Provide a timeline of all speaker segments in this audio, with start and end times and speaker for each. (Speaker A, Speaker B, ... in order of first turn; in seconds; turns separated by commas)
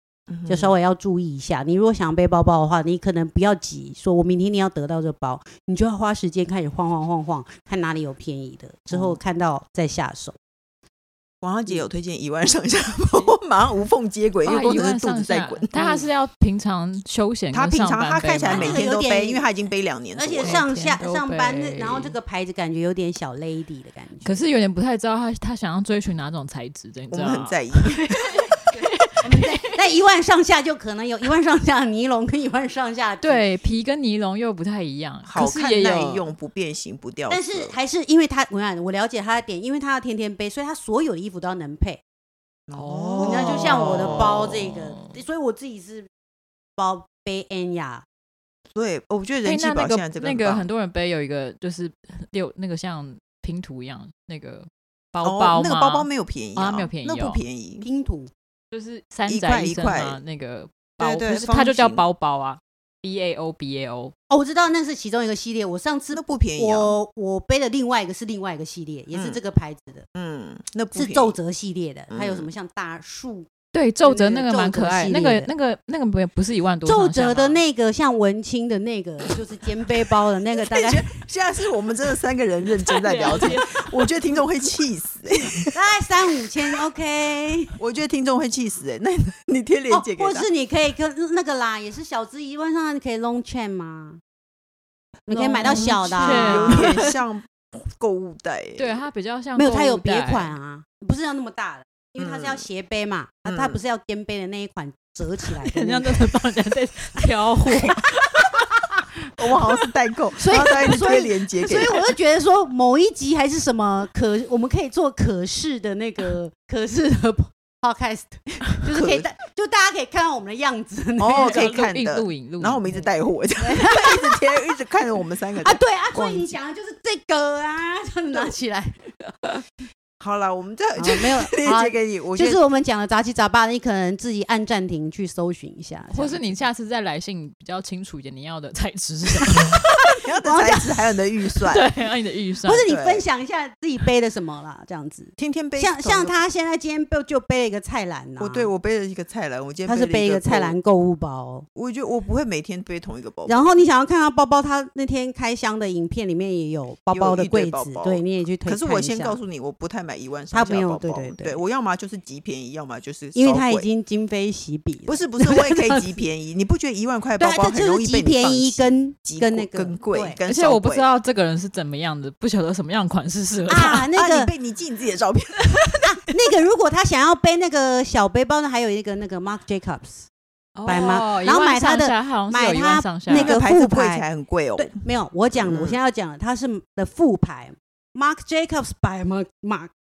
Speaker A: 0.3-0.7, Speaker B: 0.5-10.4, Speaker A: 8.9-9.2, Speaker A: 11.4-16.1, Speaker C: 14.4-18.9, Speaker A: 17.5-20.6, Speaker B: 18.4-24.4, Speaker C: 20.4-22.1, Speaker C: 24.2-29.7, Speaker A: 27.1-28.4, Speaker B: 29.2-33.5, Speaker C: 33.2-36.3, Speaker A: 35.2-37.7, Speaker B: 37.3-42.0, Speaker A: 42.7-44.6, Speaker C: 42.7-45.2, Speaker B: 43.2-46.1, Speaker B: 46.8-48.0, Speaker A: 48.7-50.7, Speaker C: 49.4-57.4, Speaker A: 55.2-57.9, Speaker B: 57.8-58.3, Speaker C: 58.7-64.1, Speaker A: 59.3-60.2, Speaker A: 61.0-62.1, Speaker B: 64.3-70.1, Speaker A: 66.1-67.0, Speaker A: 69.1-69.4, Speaker A: 70.2-71.4, Speaker B: 70.9-73.5, Speaker A: 72.1-72.5, Speaker C: 73.7-77.6, Speaker B: 74.0-75.5, Speaker B: 76.8-81.1, Speaker A: 80.5-85.8, Speaker C: 82.8-83.7, Speaker B: 85.7-87.8, Speaker A: 87.8-90.5, Speaker B: 89.9-94.2, Speaker B: 95.3-96.9, Speaker C: 95.3-97.1, Speaker A: 95.6-99.0, Speaker C: 98.8-100.5, Speaker B: 99.5-106.2, Speaker A: 102.2-102.7, Speaker A: 103.5-103.8, Speaker C: 105.5-108.4, Speaker A: 109.4-112.1, Speaker B: 110.4-121.6, Speaker A: 118.9-119.3, Speaker A: 121.2-126.5, Speaker C: 121.3-122.8, Speaker B: 122.9-124.8, Speaker B: 125.6-129.2, Speaker A: 130.2-132.6, Speaker B: 131.0-136.6, Speaker C: 136.1-139.7, Speaker B: 140.2-141.2, Speaker A: 140.2-141.9, Speaker C: 141.7-142.9, Speaker B: 142.7-148.7, Speaker A: 142.9-143.2, Speaker A: 145.4-146.4, Speaker A: 148.4-150.8, Speaker B: 149.8-151.7, Speaker A: 151.8-153.8, Speaker B: 153.5-159.4, Speaker A: 157.1-163.9, Speaker B: 160.5-161.6, Speaker B: 163.3-166.1, Speaker A: 165.1-171.1, Speaker B: 167.4-170.4, Speaker C: 170.5-174.1, Speaker B: 173.7-174.5, Speaker A: 173.7-175.9, Speaker B: 176.0-180.3, Speaker C: 180.8-183.6, Speaker B: 180.9-189.9, Speaker A: 183.3-186.0